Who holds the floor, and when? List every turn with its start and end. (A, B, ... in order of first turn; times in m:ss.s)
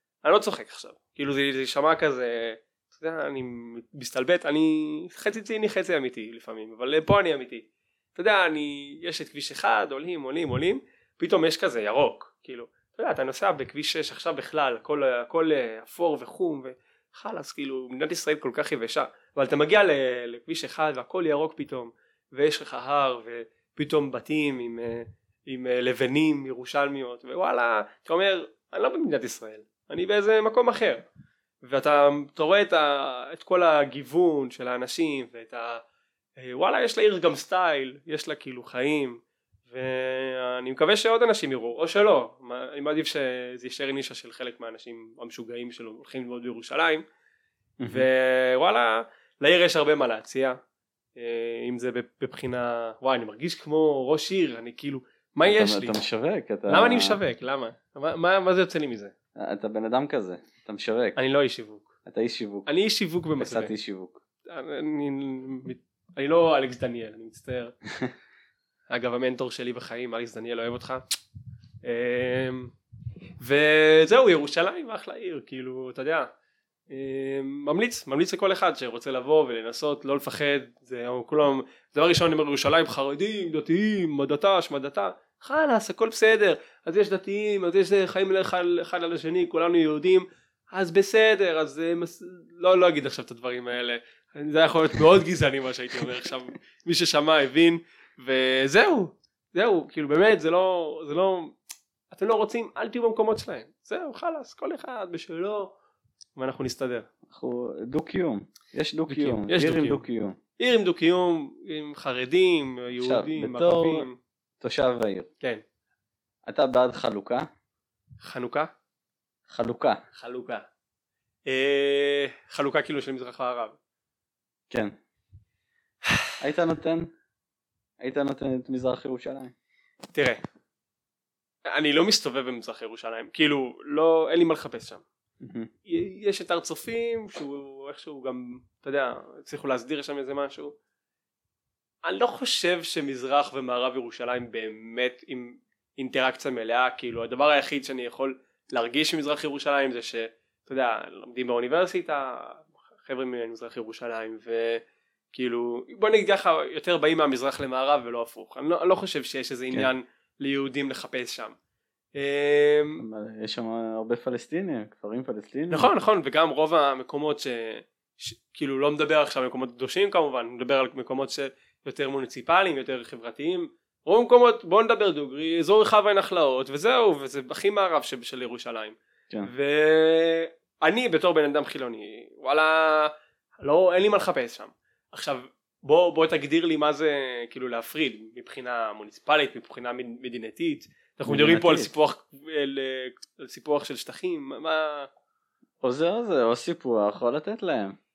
0:00.2-0:31.0 A
0:31.6-0:35.8 A
0:36.4-0:39.2 A
0:39.7-0:47.0 A
0:47.8-0:48.1 B
0:47.9-0:50.6 A
0:51.2-0:56.0 A
0:55.4-0:57.2 B
0:56.7-0:59.1 A
0:59.4-1:01.2 B
1:01.2-1:01.9 A
1:02.1-1:02.7 B
1:02.7-1:03.7 A
1:03.4-1:04.2 B
1:04.5-1:07.8 A
1:08.9-1:11.0 A
1:11.8-1:12.7 A
1:13.4-1:16.3 A
1:16.9-1:41.6 A
1:42.1-1:45.7 A
1:46.4-1:47.1 A
1:47.3-1:50.4 B
1:49.1-1:50.0 A
1:50.6-1:54.2 A
1:53.0-1:54.1 B
1:54.6-1:55.3 B
1:56.5-1:57.5 B
1:58.2-1:58.7 A
1:59.5-2:00.0 B
2:00.2-2:00.7 A
2:01.5-2:03.8 A
2:06.4-2:07.1 B
2:08.0-2:09.5 B
2:10.1-2:10.4 A
2:11.7-2:15.0 A
2:15.4-2:15.7 B
2:15.9-2:20.8 A
2:22.0-2:34.8 A
2:35.3-2:41.6 A
2:42.2-2:43.0 A
2:43.0-2:45.9 B
2:45.7-3:15.1 A
3:11.3-3:11.9 B
3:15.8-3:18.0 B